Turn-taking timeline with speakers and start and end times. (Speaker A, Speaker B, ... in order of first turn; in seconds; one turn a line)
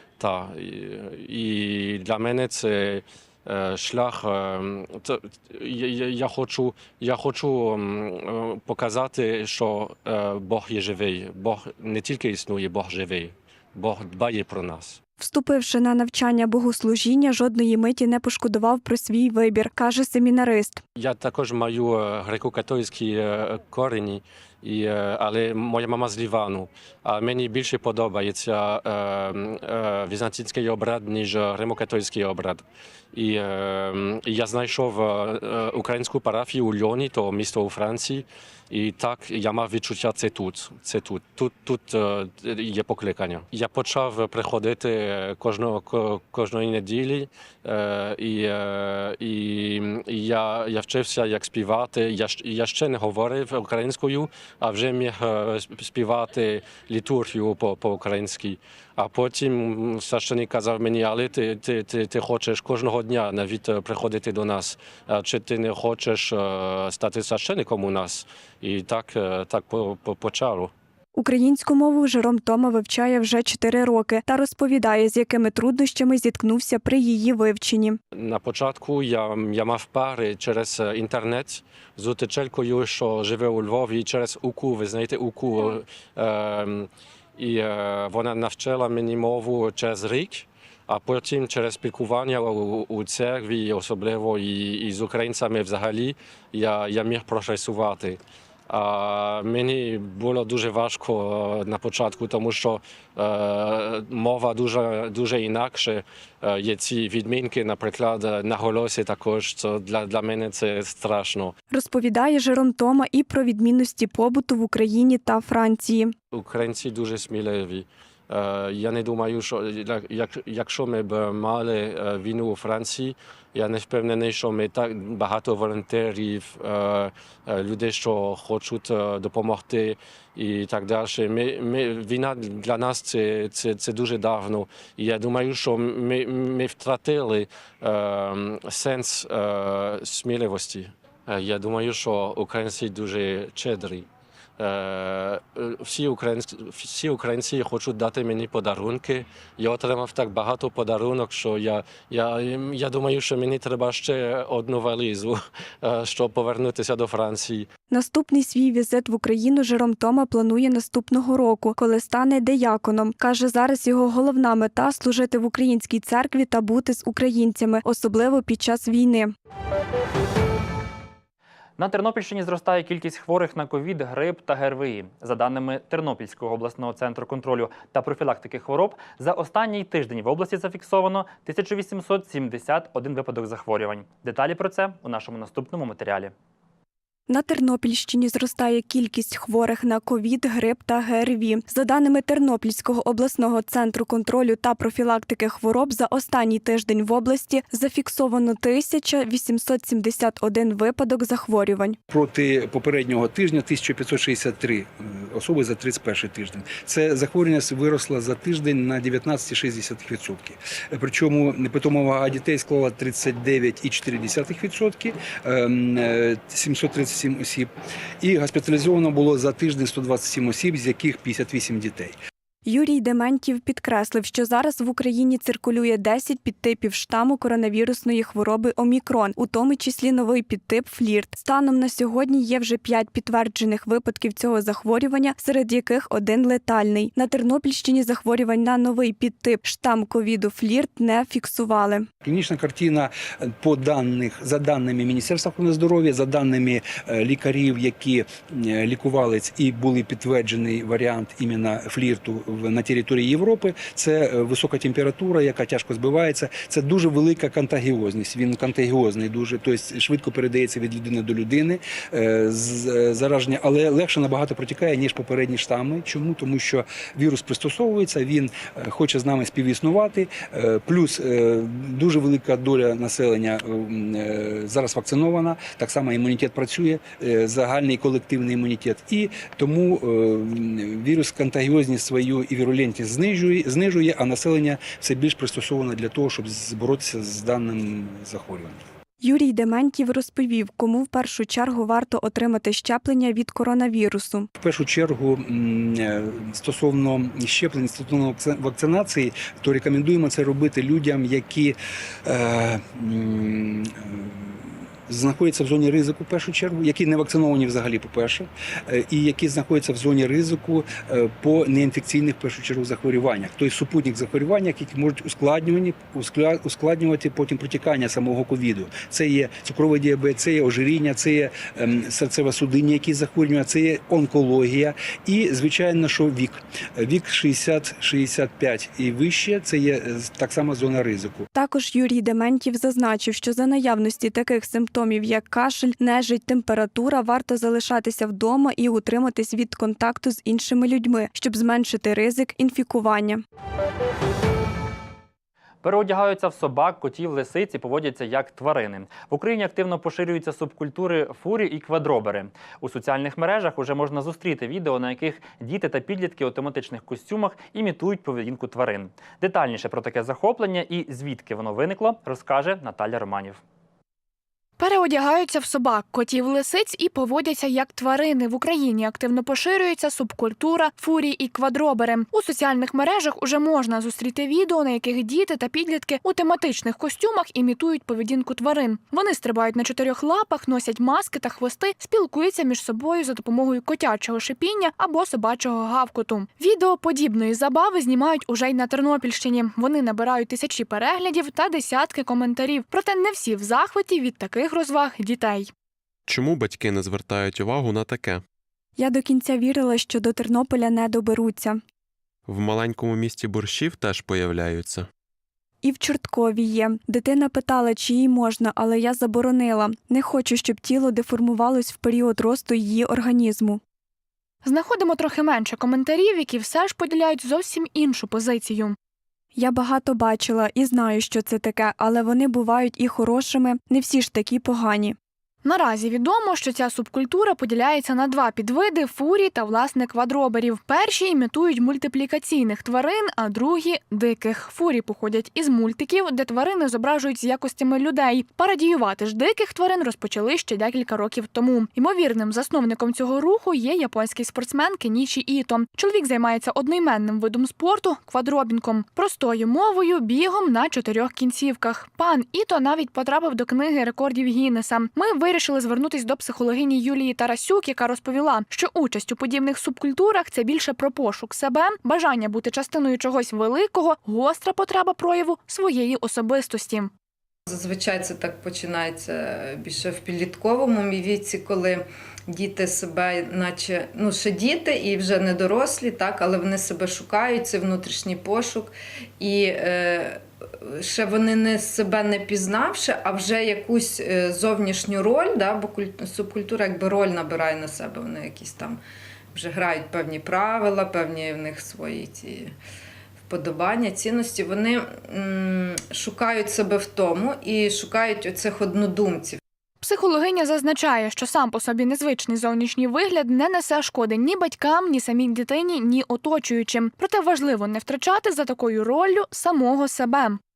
Speaker A: 0.2-15.0
Speaker B: 15.2-20.8
Speaker A: 21.0-70.7
Speaker B: 71.2-78.0
Speaker A: 78.2-111.5
Speaker B: 111.7-116.1
Speaker A: 116.3-144.1
Speaker A: 144.6-157.7
Speaker B: 157.9-169.3
Speaker C: 171.8-186.3
Speaker B: 187.3-202.0
Speaker D: 202.1-217.7
Speaker D: 218.2-222.1
Speaker B: 222.7-242.1
Speaker D: 242.2-288.8
Speaker B: 289.2-294.5
Speaker D: 294.6-331.5
Speaker B: 331.5-343.4
Speaker C: 345.8-363.6
Speaker E: 364.8-395.7
Speaker F: 396.3-398.4
Speaker B: 399.0-401.8
Speaker F: 402.5-405.1
Speaker B: 405.8-413.8
Speaker E: 414.6-419.0
Speaker B: 419.6-425.2
Speaker E: 425.6-467.1
Speaker G: 467.7-489.0
Speaker G: 489.5-492.7
Speaker G: 493.5-499.6
Speaker E: 500.0-510.6